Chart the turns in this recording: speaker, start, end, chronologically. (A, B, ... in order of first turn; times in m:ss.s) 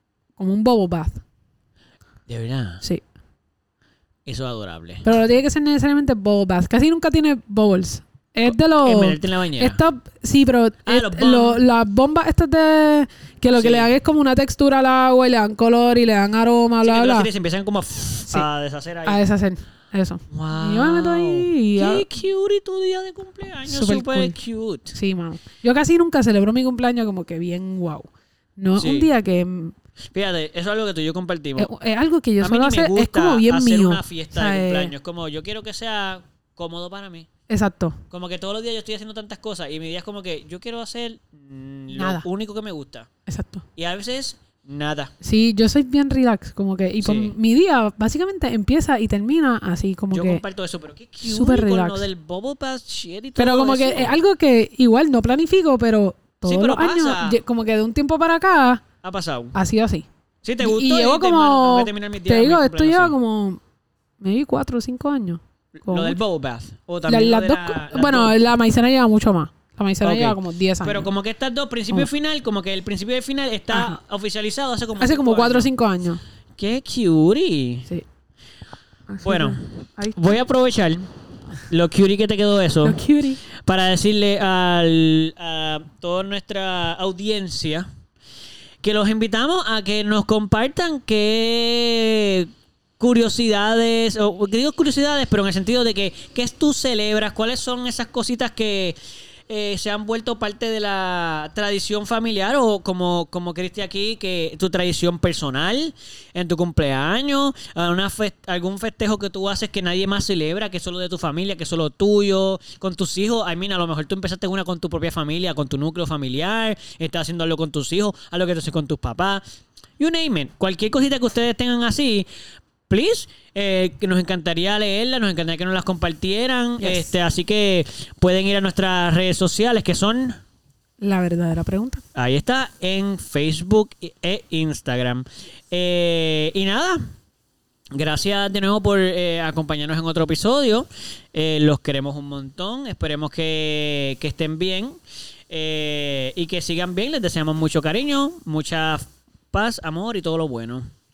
0:00.4-0:01.2 A
0:02.3-0:02.8 B
0:04.3-0:05.1 B
0:05.0-0:17.3 A
0:08.4-0:09.8 B
0:10.9-0:11.6 B
0:13.5-0:13.9 B
0:16.8-0:19.2 B
0:19.1-0:22.1 A
0:20.3-0:25.0 B
0:23.7-0:24.4 A
0:24.9-0:29.7 A
0:28.8-0:29.1 B
0:30.1-0:31.7 B
0:31.6-0:34.9 A
0:32.4-0:37.3 B
0:37.5-0:38.0 A
0:38.1-0:43.1 B
0:41.9-0:42.2 A
0:43.3-0:43.6 A
0:43.8-0:45.1 B
0:45.2-0:50.4 A
0:47.0-0:47.3 B
0:50.1-0:54.2 B
0:51.2-0:52.0 A
0:53.4-0:58.8 A
0:56.4-0:57.4 B
0:59.0-0:59.6 B
0:59.6-1:00.1 A
1:00.4-1:03.2 B
1:00.6-1:03.6 A
1:04.2-1:06.2 A
1:05.8-1:08.4 B
1:07.1-1:11.1 A
1:10.0-1:15.7 B
1:13.7-1:14.0 A
1:15.0-1:16.2 A
1:16.6-1:17.9 B
1:19.1-1:20.2 A
1:19.2-1:19.6 B
1:20.1-1:21.1 B
1:21.7-1:23.0 B
1:22.8-1:23.4 A
1:23.5-1:27.9 B
1:28.8-1:39.0 B
1:39.5-1:59.4 B
2:00.0-2:02.3 B
2:02.9-2:10.4 B
2:06.8-2:07.1 A
2:11.0-2:12.0 A
2:12.2-2:17.0 B
2:17.9-2:25.0 B
2:25.5-2:30.9 B